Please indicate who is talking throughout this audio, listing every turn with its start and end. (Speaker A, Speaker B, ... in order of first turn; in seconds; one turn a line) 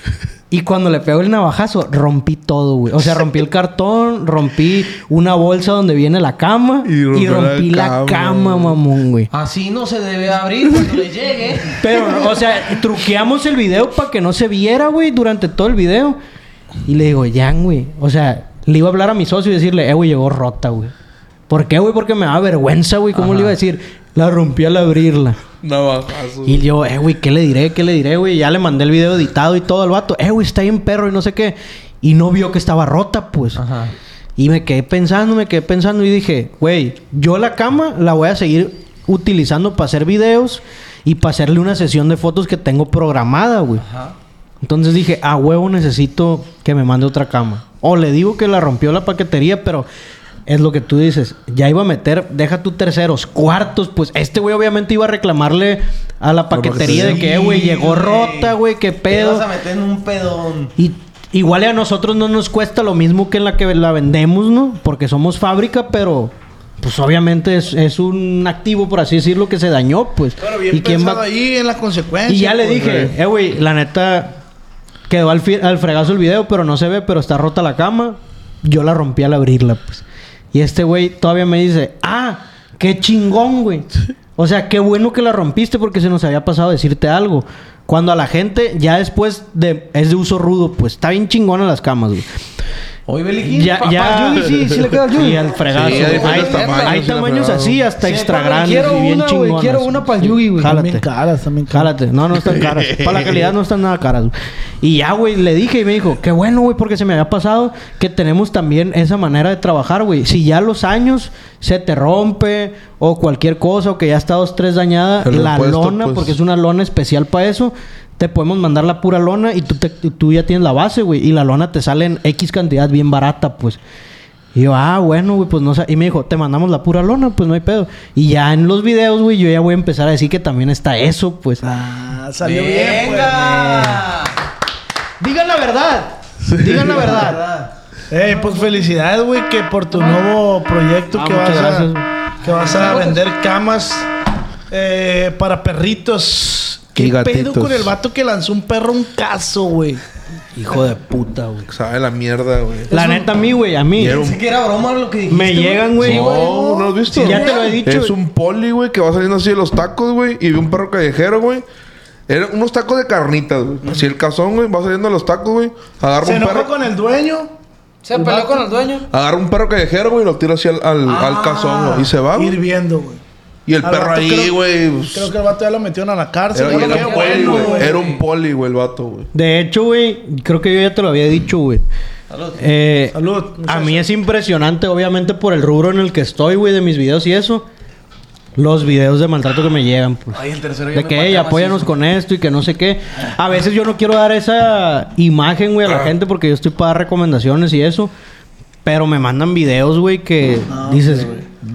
Speaker A: 0.5-9.3
Speaker B: 6.9-8.8
Speaker C: 9.3-11.8
Speaker A: 11.8-16.2
Speaker A: 16.9-20.9
Speaker A: 21.5-25.4
Speaker B: 25.6-26.6
Speaker A: 26.4-33.6
Speaker C: 33.6-33.9
Speaker A: 34.4-43.9
Speaker C: 43.8-44.1
Speaker A: 44.6-49.9
Speaker A: 50.5-59.5
Speaker B: 56.5-57.2
Speaker C: 56.9-58.5
Speaker C: 59.1-60.7
Speaker A: 60.8-71.2
Speaker D: 70.4-73.1
Speaker A: 72.3-74.4
Speaker A: 75.1-92.4
Speaker C: 93.1-93.9
Speaker A: 93.5-101.1
Speaker E: 93.6-95.5
Speaker B: 95.7-97.8
Speaker C: 95.7-97.1
Speaker E: 98.2-100.7
Speaker D: 100.6-101.9
Speaker A: 101.7-123.8
Speaker B: 102.5-103.4
Speaker B: 115.2-116.3
Speaker A: 124.5-131.6
Speaker D: 131.6-134.1
Speaker C: 132.4-134.4
Speaker A: 135.2-137.4
Speaker C: 136.9-137.7
Speaker D: 138.1-141.9
Speaker A: 141.1-142.1
Speaker D: 142.4-144.1
Speaker E: 142.7-143.2
Speaker D: 144.7-150.0
Speaker B: 147.0-147.9
Speaker A: 150.5-151.7
Speaker B: 151.7-152.9
Speaker A: 152.9-154.2
Speaker B: 154.0-154.4
Speaker C: 154.0-156.5
Speaker A: 155.3-156.4
Speaker B: 156.0-161.7
Speaker D: 156.2-157.8
Speaker A: 157.2-158.2
Speaker B: 162.3-166.7
Speaker D: 166.2-167.5
Speaker E: 168.0-169.1
Speaker D: 168.1-168.7
Speaker B: 169.1-172.6
Speaker C: 171.1-172.1
Speaker D: 172.3-173.2
Speaker B: 173.7-175.3
Speaker D: 173.8-178.0
Speaker B: 176.5-179.3
Speaker C: 176.7-178.2
Speaker E: 176.7-177.7
Speaker A: 179.3-181.8
Speaker C: 182.3-182.6
Speaker A: 182.6-187.7
Speaker D: 183.1-184.1
Speaker A: 188.6-190.4
Speaker C: 190.3-191.9
Speaker A: 190.9-198.1
Speaker A: 198.8-201.4
Speaker D: 200.7-201.4